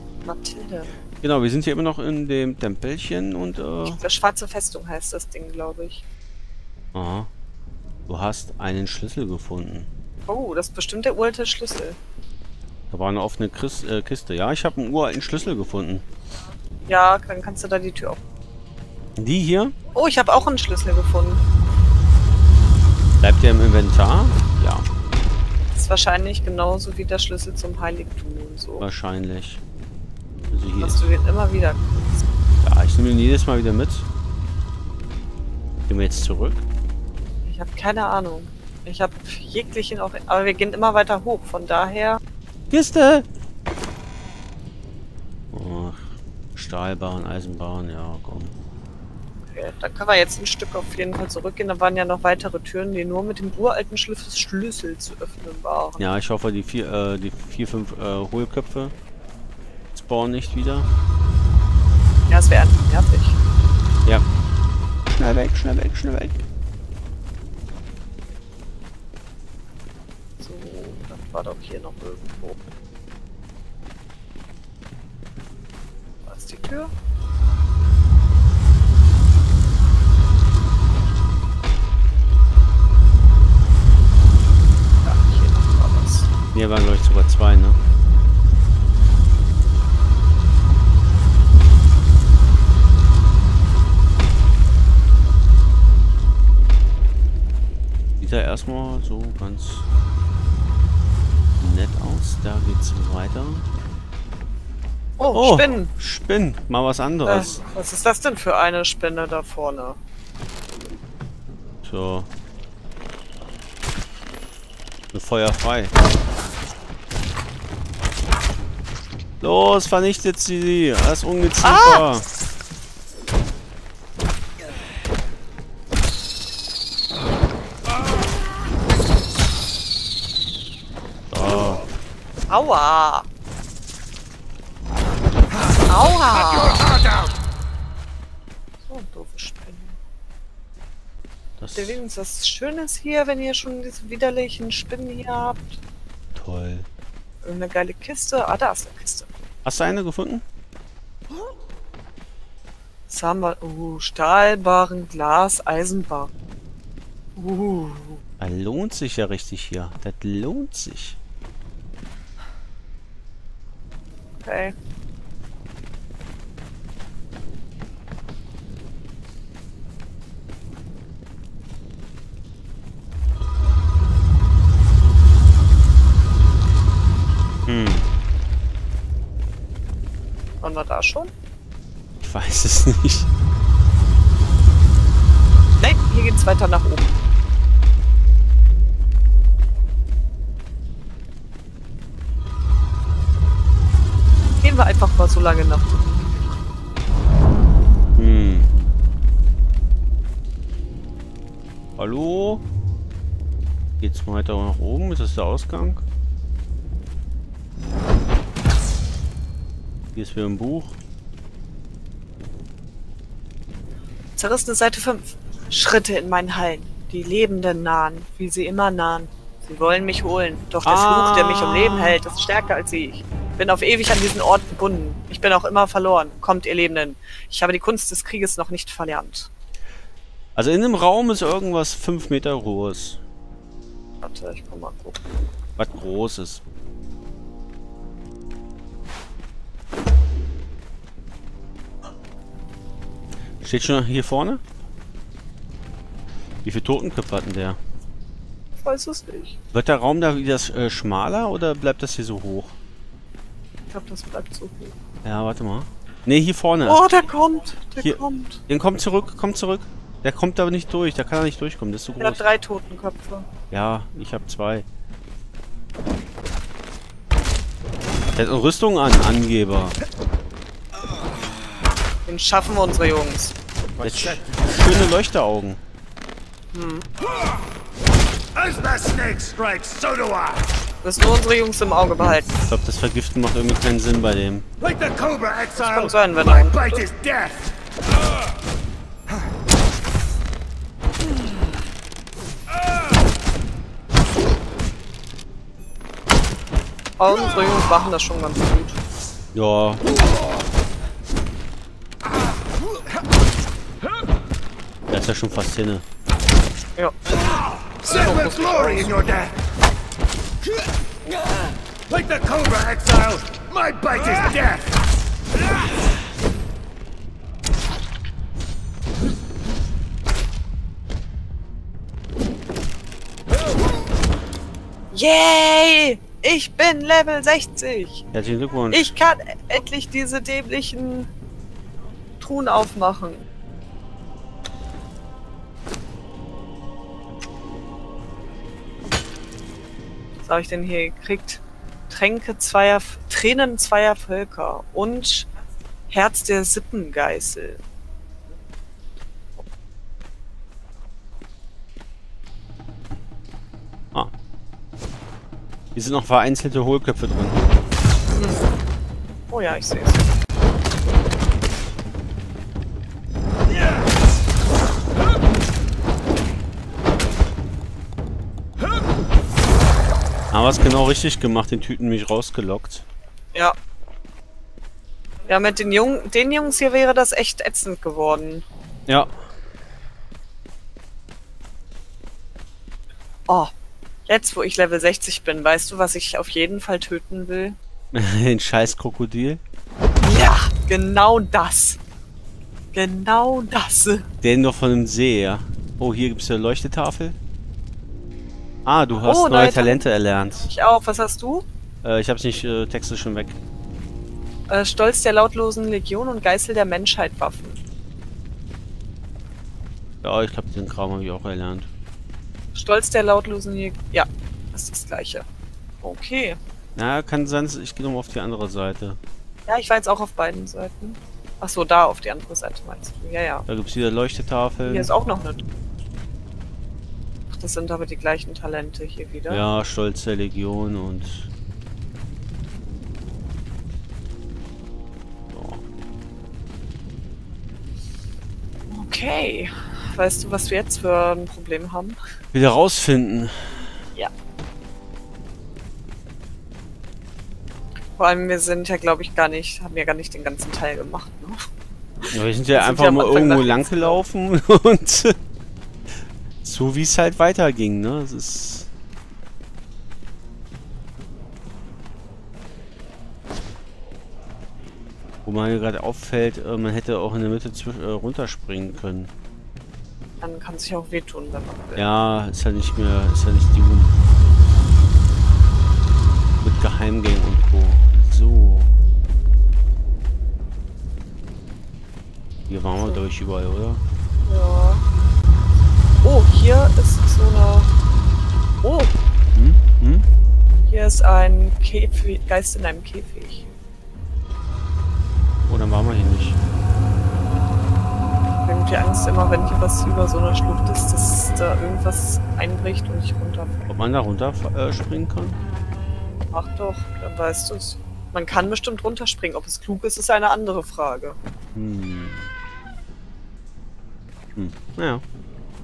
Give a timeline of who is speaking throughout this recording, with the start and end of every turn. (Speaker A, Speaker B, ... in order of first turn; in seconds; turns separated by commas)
Speaker A: 0.2-0.9, Speaker B: 1.2-4.0, Speaker A: 3.8-6.0, Speaker B: 6.9-7.3, Speaker B: 8.1-9.9, Speaker A: 10.3-12.0, Speaker B: 12.9-16.0, Speaker A: 16.9-18.2, Speaker B: 19.2-19.8, Speaker A: 19.9-21.4, Speaker B: 23.2-24.9, Speaker A: 25.7-28.9, Speaker B: 28.8-29.6, Speaker B: 30.5-31.1, Speaker A: 30.8-32.1, Speaker B: 32.6-34.1, Speaker B: 35.9-36.6, Speaker A: 37.4-42.2, Speaker B: 42.7-43.3, Speaker B: 45.5-48.5, Speaker A: 49.5-56.1, Speaker B: 56.0-58.9, Speaker B: 59.9-60.9, Speaker A: 62.3-63.4, Speaker B: 65.1-66.4, Speaker A: 70.4-72.6, Speaker A: 76.2-76.9, Speaker A: 85.0-86.3, Speaker B: 86.5-87.8, Speaker B: 98.2-99.9, Speaker B: 101.6-103.6, Speaker A: 105.2-105.9, Speaker B: 105.3-107.6, Speaker A: 107.2-110.0, Speaker B: 111.8-112.3, Speaker B: 115.1-115.9, Speaker B: 119.4-122.2, Speaker A: 121.6-122.0, Speaker B: 131.3-131.9, Speaker A: 132.5-133.3, Speaker A: 135.9-137.0, Speaker C: 136.5-137.3, Speaker A: 138.8-140.0, Speaker B: 141.6-142.0, Speaker A: 141.7-145.8, Speaker B: 146.3-146.9, Speaker A: 147.4-149.3, Speaker B: 149.6-150.4, Speaker A: 153.1-156.3, Speaker A: 157.3-158.2, Speaker B: 158.4-161.2, Speaker A: 164.4-164.7, Speaker B: 177.7-178.1, Speaker A: 180.6-181.3, Speaker B: 182.2-183.3, Speaker A: 185.8-187.2, Speaker A: 194.6-196.3, Speaker B: 198.2-198.7, Speaker B: 202.0-202.6, Speaker B: 204.0-206.0, Speaker B: 210.1-211.0, Speaker A: 214.4-229.5, Speaker B: 220.8-222.2, Speaker B: 230.6-233.2, Speaker A: 234.2-235.2, Speaker B: 235.8-236.6, Speaker B: 243.6-244.6, Speaker B: 246.6-247.8, Speaker A: 248.8-249.6, Speaker B: 249.7-252.8, Speaker A: 253.9-254.9, Speaker B: 255.2-257.0, Speaker A: 256.8-258.6, Speaker B: 258.0-262.4, Speaker A: 262.2-263.5, Speaker B: 263.7-264.9, Speaker B: 268.3-269.9, Speaker A: 272.2-273.6, Speaker C: 274.0-274.7, Speaker B: 274.0-275.8, Speaker A: 276.7-277.1, Speaker C: 278.5-280.7, Speaker A: 281.0-282.6, Speaker B: 282.7-284.6, Speaker C: 284.8-287.7, Speaker A: 285.8-287.0, Speaker A: 297.2-299.0, Speaker B: 299.5-300.0, Speaker B: 305.1-306.0, Speaker C: 307.9-309.6, Speaker A: 308.1-308.8, Speaker C: 312.1-314.9, Speaker A: 325.1-328.2, Speaker B: 328.3-329.1, Speaker A: 328.9-331.3, Speaker A: 332.4-333.5, Speaker A: 340.4-345.5, Speaker A: 346.1-347.8, Speaker B: 355.9-357.6, Speaker A: 358.3-358.7, Speaker A: 359.5-360.2, Speaker B: 370.5-373.0, Speaker A: 375.4-378.6, Speaker B: 379.1-379.3, Speaker A: 384.3-387.8, Speaker B: 388.1-389.6, Speaker A: 390.2-392.0, Speaker A: 392.9-394.3, Speaker B: 394.4-397.4, Speaker B: 398.8-400.7, Speaker A: 399.2-400.0, Speaker A: 400.6-401.6, Speaker B: 402.0-403.6, Speaker A: 404.7-407.8, Speaker B: 410.2-411.9, Speaker A: 412.7-415.4, Speaker A: 416.0-416.6, Speaker B: 416.9-419.2, Speaker A: 419.7-423.6, Speaker B: 423.7-425.1, Speaker A: 424.8-425.6, Speaker A: 427.5-429.6, Speaker B: 429.5-431.5, Speaker B: 435.5-435.8, Speaker A: 438.9-442.2, Speaker B: 442.5-444.0, Speaker A: 448.2-451.6, Speaker A: 452.2-454.2, Speaker B: 452.3-455.4, Speaker B: 456.6-458.9, Speaker B: 465.4-469.3, Speaker A: 470.4-472.1, Speaker B: 471.9-474.1, Speaker B: 476.6-479.0, Speaker B: 482.7-484.0, Speaker A: 484.5-485.1, Speaker A: 486.2-487.9, Speaker A: 488.8-489.1, Speaker B: 489.5-490.3, Speaker A: 490.9-493.7, Speaker B: 495.7-496.6, Speaker A: 498.6-503.8, Speaker B: 503.9-505.6, Speaker A: 506.5-511.4, Speaker B: 511.7-512.5, Speaker B: 514.5-515.2